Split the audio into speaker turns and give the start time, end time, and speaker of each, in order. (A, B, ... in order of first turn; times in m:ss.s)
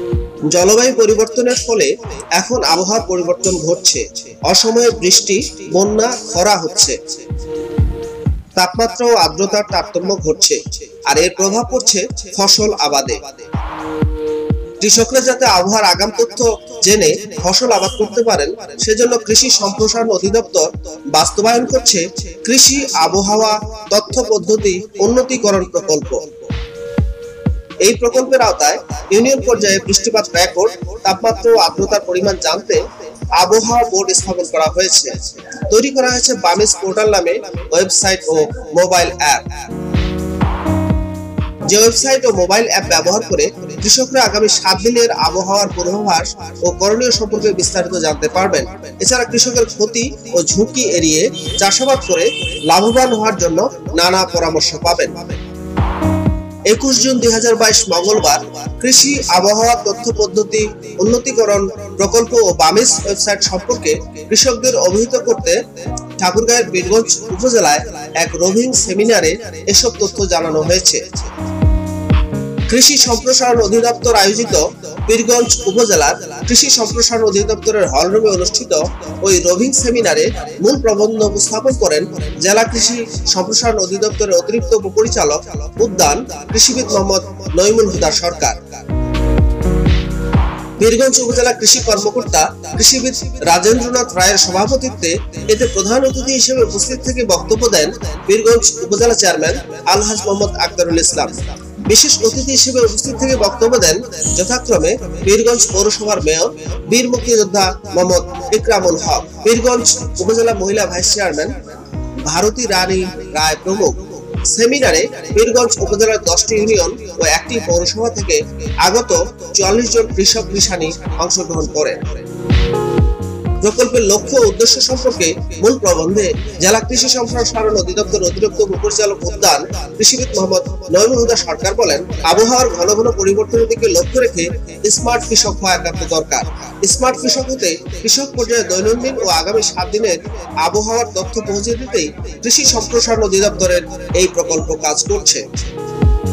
0:00.5-0:07.0 A
0:08.6-0:13.3 A
0:14.8-0:26.3 A
0:27.8-0:39.6 A
0:41.7-0:55.4 A
0:56.7-1:11.2 A
1:12.7-1:28.8 A
1:30.8-1:51.6 A
1:52.2-2:02.2 A
2:03.6-2:25.5 A